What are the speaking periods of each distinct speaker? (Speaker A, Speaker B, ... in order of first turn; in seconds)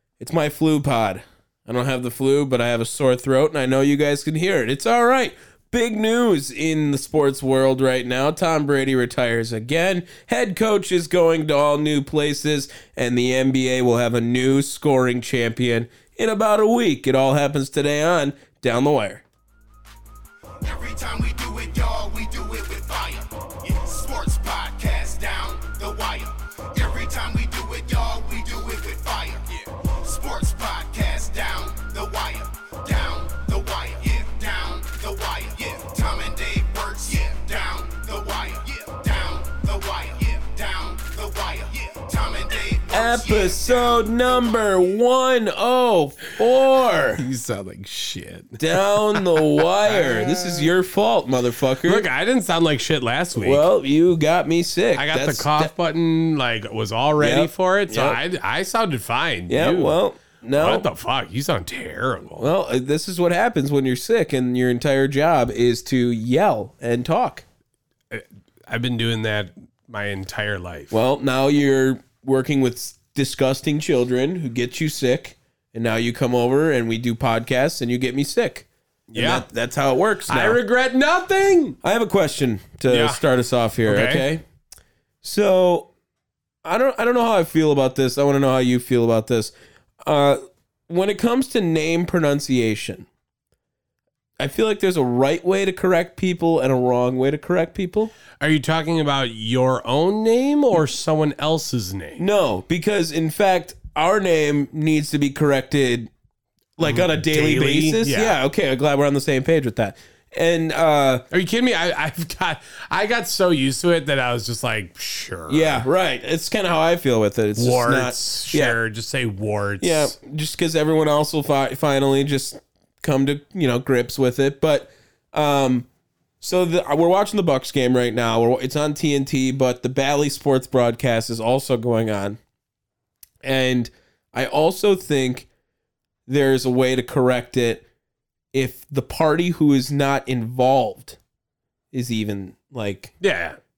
Speaker A: 0.2-19.2, 42.9-47.2, 48.6-52.0, 53.3-55.7, 57.2-58.2, 59.5-60.9, 62.4-67.4, 70.9-80.6, 81.8-84.4, 85.2-85.9, 86.6-89.5, 90.0-93.1, 94.4-98.1, 102.2-106.1, 106.8-111.2, 115.5-118.8, 119.8-125.9, 126.4-132.4, 133.4-135.5, 136.3-137.8, 138.5-141.2, 141.9-143.1
Speaker B: 20.6-44.6
Speaker C: 47.1-50.7, 51.8-53.7, 54.9-60.0, 60.5-62.5, 68.1-70.9, 79.1-79.4, 80.3-81.8, 82.9-83.2, 83.8-84.3, 98.4-102.2, 106.8-108.4, 111.3-115.9, 117.5-120.2, 143.2-143.6